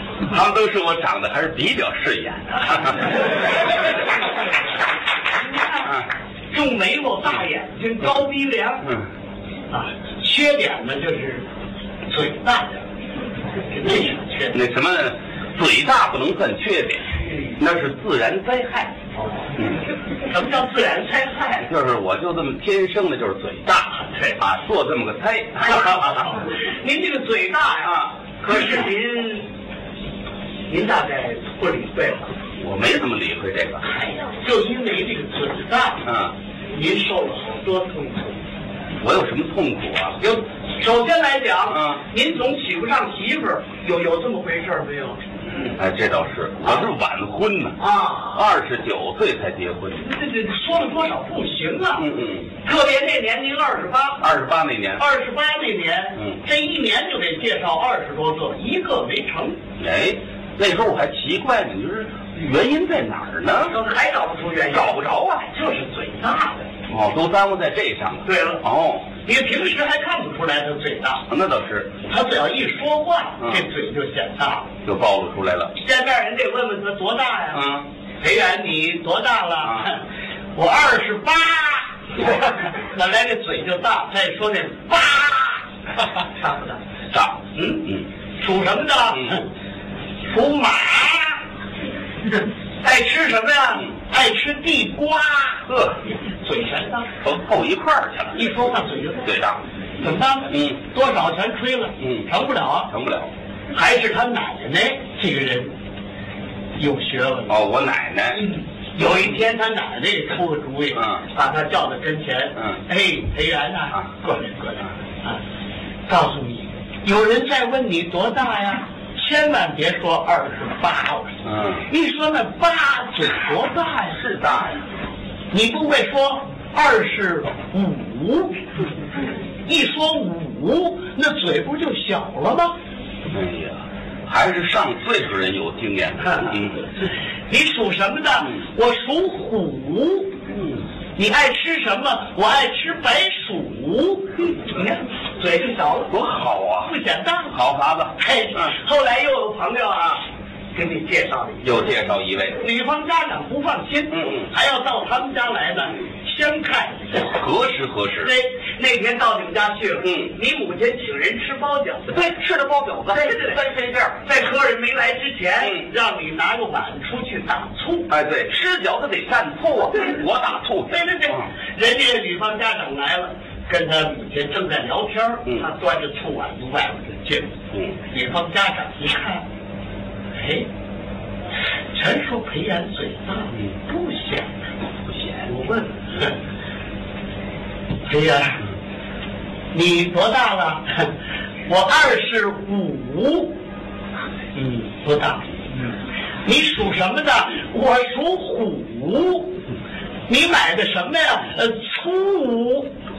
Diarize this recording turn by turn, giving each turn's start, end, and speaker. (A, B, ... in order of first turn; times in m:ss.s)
0:00.2-0:03.3 A
0:05.5-0:08.9 B
0:09.7-0:11.4 B
0:12.1-0:12.8 B
0:13.7-0:14.6 B
0:14.5-0:18.9 A
0:20.3-0:21.7 B
0:21.7-0:26.3 A
0:24.0-0:24.4 B
0:25.6-0:29.5 B
0:27.8-0:28.9 A
0:30.7-0:32.3 B
0:32.6-0:33.9 A
0:34.1-0:36.1 B
0:36.0-0:36.3 A
0:36.7-0:38.4 B
0:39.0-0:40.2 A
0:40.2-0:45.2 B
0:45.6-0:47.8 A
0:47.8-0:48.4 B
0:48.3-0:50.1 A
0:50.0-0:52.1 B
0:52.0-0:52.5 A
0:52.6-0:54.2 B
0:54.2-0:55.0 A
0:55.0-0:59.6 B
0:59.8-1:03.7 A
1:03.4-1:06.7 B
1:04.7-1:05.4 A
1:06.9-1:09.0 A
1:08.2-1:08.6 B
1:09.2-1:11.2 B
1:11.3-1:11.9 A
1:12.0-1:14.7 B
1:14.8-1:15.7 A
1:15.8-1:26.8 B
1:17.6-1:17.8 A
1:27.1-1:28.0 A
1:27.6-1:27.8 B
1:28.4-1:29.5 B
1:30.3-1:31.4 B
1:32.8-1:37.2 B
1:37.2-1:38.4 A
1:38.3-1:39.4 B
1:39.2-1:39.6 A
1:40.0-1:42.9 B
1:42.9-1:43.3 A
1:43.7-1:45.7 B
1:46.8-1:47.6 B
1:47.5-1:48.4 A
1:48.3-1:55.4 B
1:56.1-2:04.2 B
2:01.4-2:01.8 A
2:04.1-2:04.8 A
2:05.5-2:08.7 B
2:09.6-2:12.7 B
2:13.3-2:16.8 A
2:17.5-2:20.4 B
2:21.2-2:26.2 B
2:26.1-2:26.9 A
2:26.8-2:27.6 B
2:27.5-2:28.2 A
2:28.2-2:31.7 B
2:31.6-2:32.6 A
2:32.6-2:37.3 B
2:37.2-2:38.3 A
2:38.2-2:42.3 B
2:42.1-2:44.2 A
2:43.1-2:43.6 B
2:44.2-2:48.1 B
2:48.1-2:51.0 A
2:50.9-2:59.4 B
3:00.3-3:00.7 B
3:01.9-3:04.5 B
3:05.4-3:06.4 B
3:08.0-3:08.6 B
3:09.7-3:11.1 B
3:11.6-3:13.6 B
3:14.5-3:15.5 B
3:16.4-3:19.6 B
3:20.3-3:22.9 B